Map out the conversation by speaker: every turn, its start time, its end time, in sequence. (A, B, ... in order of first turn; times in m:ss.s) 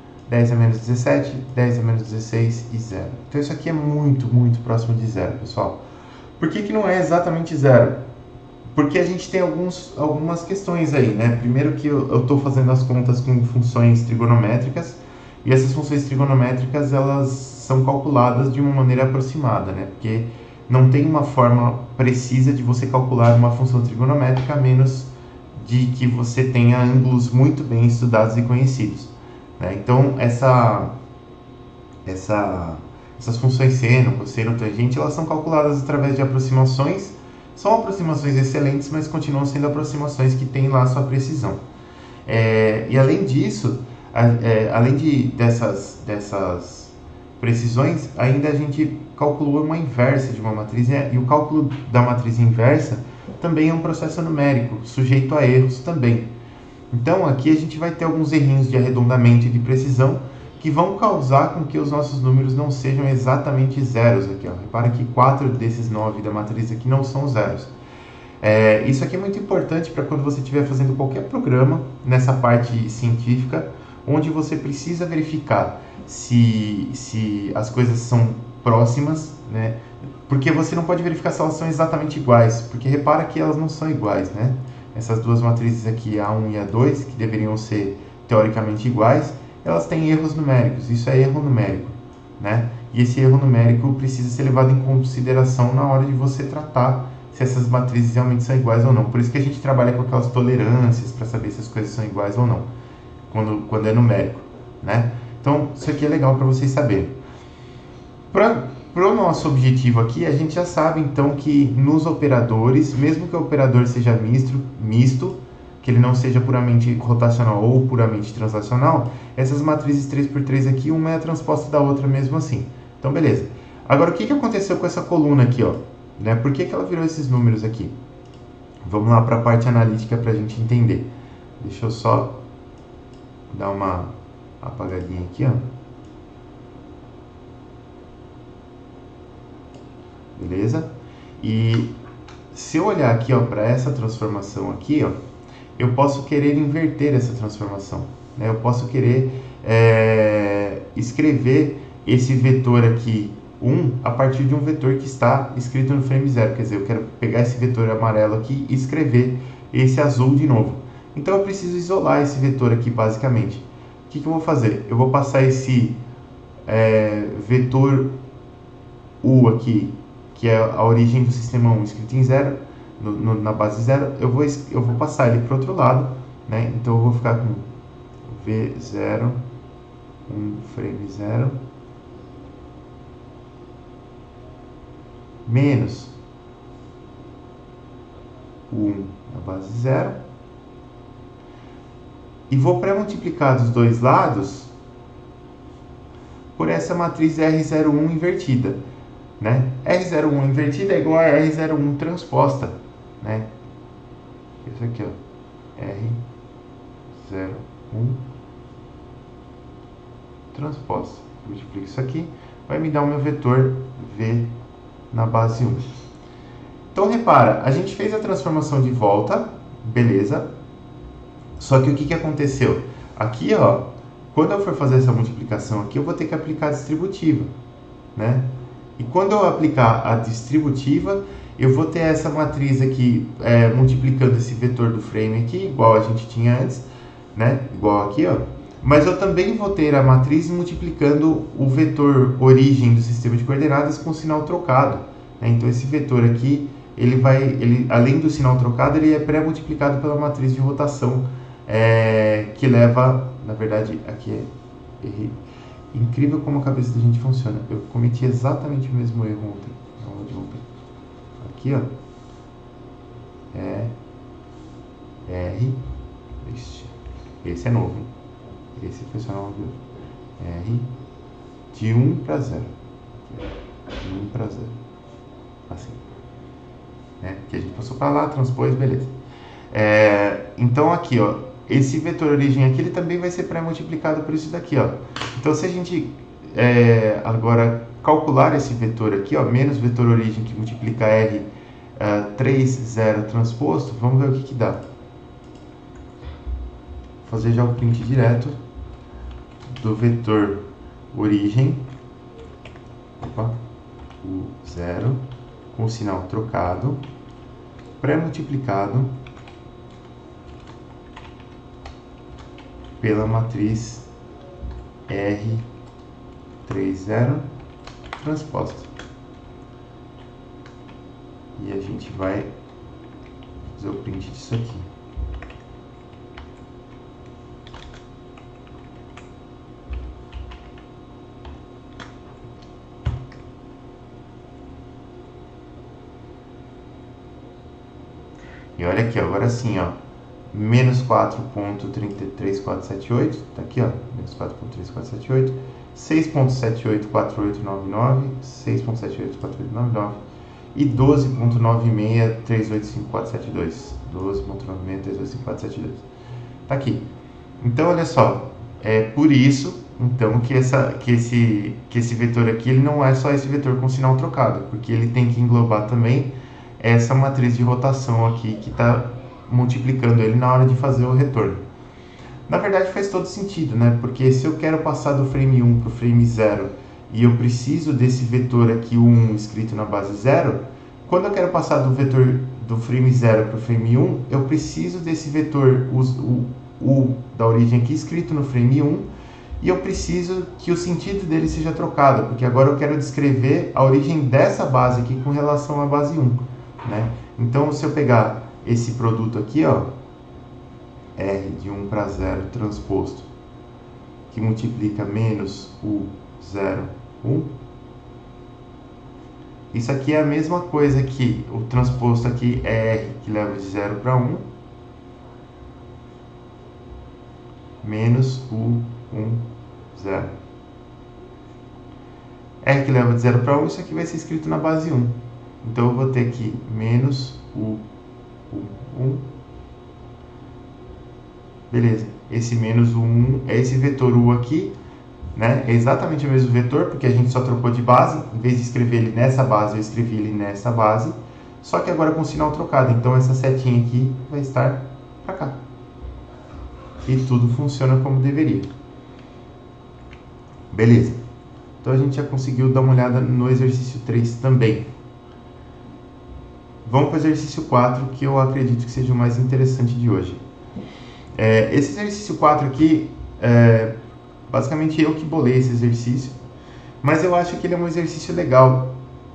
0:00.3-0:05.8 A
0:06.4-0:08.1 A
0:08.7-0:31.0 A
0:32.1-0:41.6 A
0:42.3-0:56.3 A
0:56.9-1:07.7 A
1:08.4-1:42.7 A
1:43.3-1:47.2 A
1:48.3-2:08.0 A
2:08.8-2:11.1 A
2:11.6-2:12.4 A
2:13.5-2:15.6 A
2:20.4-2:22.0 A
2:22.5-2:25.2 A
2:25.8-2:46.0 A
2:46.7-2:48.1 A
2:49.2-2:57.7 A
2:58.3-2:59.4 A
3:00.3-3:01.6 A
3:05.5-3:06.1 A
3:08.7-3:10.2 A
3:12.5-3:14.7 A
3:16.6-3:18.8 A
3:19.4-3:23.5 A
3:24.6-3:25.2 A
3:25.8-3:26.2 A
3:27.2-3:28.2 A
3:30.5-3:34.5 A
3:35.1-3:35.9 A
3:36.9-3:40.5 A
3:41.6-3:47.5 A
3:48.2-4:15.4 A
4:15.9-4:20.7 A
4:21.4-4:21.9 A
4:23.5-4:23.9 A
4:25.2-4:25.8 A
4:26.4-4:28.1 A
4:28.8-4:29.8 A
4:30.4-4:30.9 A
4:31.7-4:32.7 A
4:33.2-4:34.8 A
4:35.7-4:36.0 A
4:37.2-4:39.1 A
4:39.7-4:54.8 A
4:57.2-4:58.6 A
4:59.7-5:01.9 A
5:03.2-5:03.6 A
5:04.2-5:07.0 A
5:08.0-5:09.2 A
5:13.0-5:14.1 A
5:15.1-5:15.7 A
5:16.6-5:17.5 A
5:18.2-5:18.9 A
5:21.6-5:22.5 A
5:23.7-5:24.9 A
5:38.8-5:40.0 A
5:40.5-5:50.2 A
5:50.7-5:56.1 A
5:56.7-5:57.0 A
5:57.6-6:11.6 A
6:12.5-6:29.1 A
6:29.6-6:39.9 A
6:41.2-6:43.3 A
6:44.3-6:47.5 A
6:49.7-6:54.5 A
6:57.8-7:00.3 A
7:02.6-7:07.8 A
7:08.5-7:09.3 A
7:11.7-7:14.7 A
7:15.4-7:25.6 A
7:27.0-7:28.7 A
7:30.7-7:31.2 A
7:31.8-7:34.9 A
7:36.8-7:40.4 A
7:41.4-7:44.0 A
7:44.5-7:46.4 A
7:47.0-7:49.0 A